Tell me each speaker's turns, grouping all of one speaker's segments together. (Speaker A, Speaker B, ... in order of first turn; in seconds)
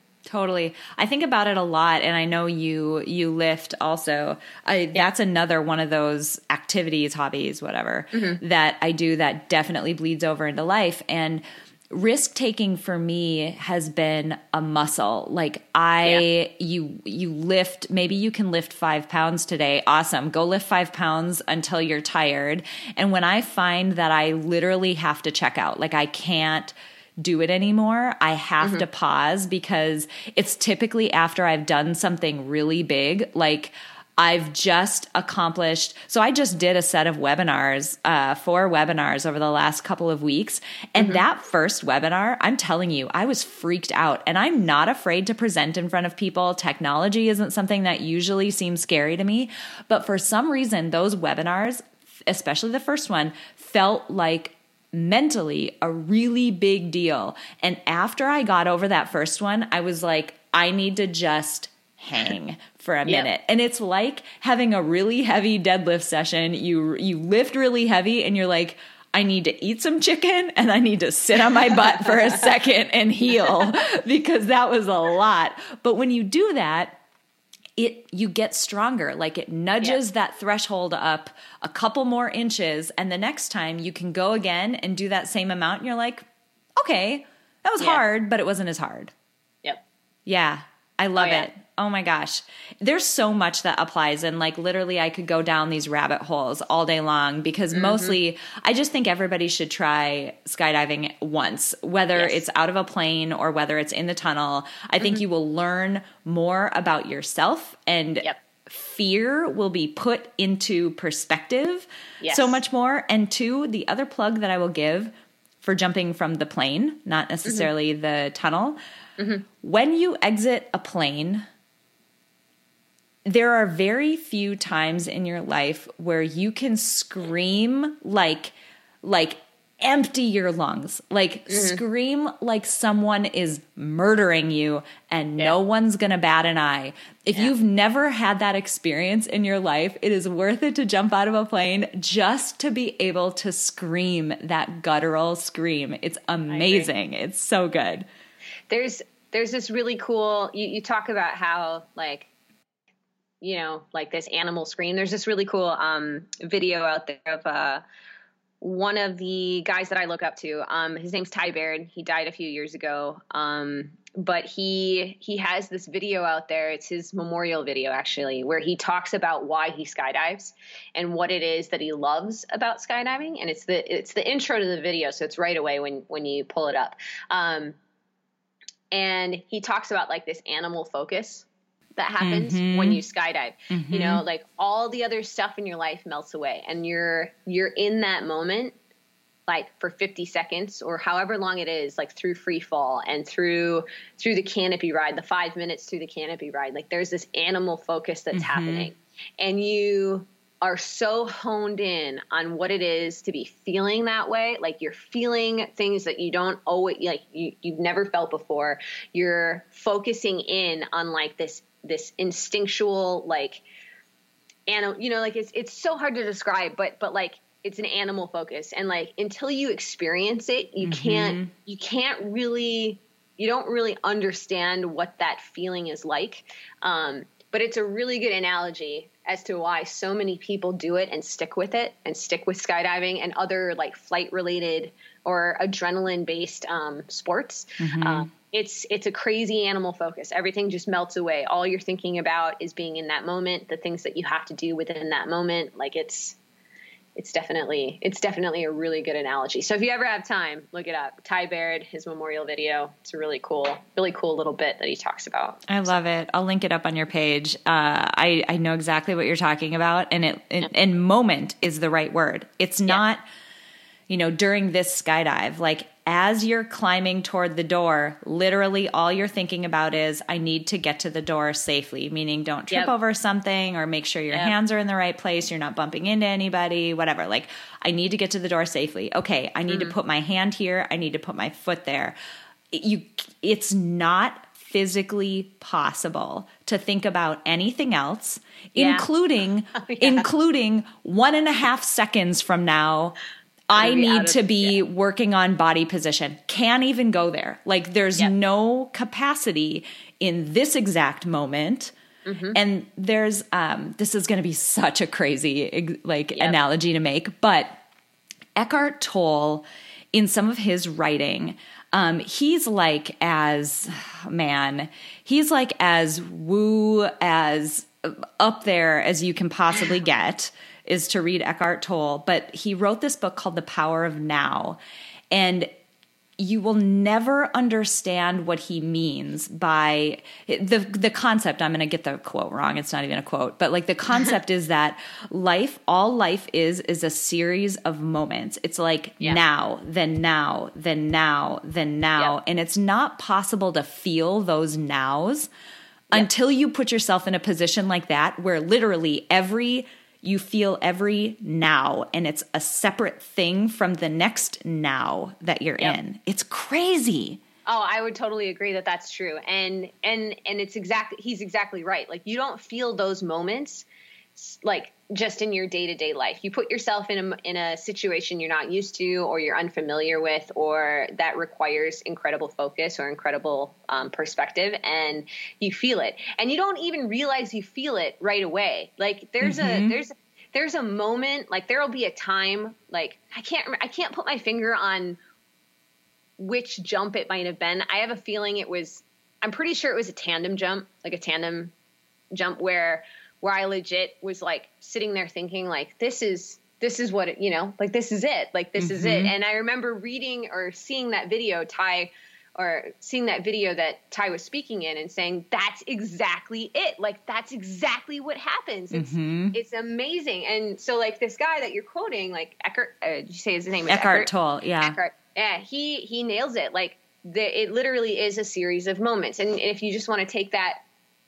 Speaker A: 0.3-77.0, 77.8-86.3, 86.8-89.1, 90.3-118.8, 119.6-121.5, 123.2-148.1, 182.2-183.0, 183.7-184.2, 198.3-198.9, 220.8-221.5, 237.8-238.3, 255.7-263.2, 264.1-282.1, 282.7-293.2, 293.7-301.9, 302.5-307.8, 308.6-324.8, 325.3-325.7, 326.4-345.5, 346.1-357.4, 379.4-380.0, 398.8-399.3, 408.9-409.6, 413.9-415.0
Speaker B: 8.1-8.4, 91.2-91.5, 97.7-98.2, 112.2-112.6, 117.5-117.7, 119.2-119.5, 131.5-131.8, 146.5-146.9, 148.7-152.3, 153.4-157.8, 158.6-177.8, 178.9-181.5, 182.0-188.8, 189.5-213.6, 214.7-246.4, 247.2-255.7, 279.7-279.9, 288.8-289.1, 289.8-290.3, 293.7-294.8, 302.2-302.6, 357.7-385.2, 386.4-391.7, 392.3-414.3, 414.8-420.8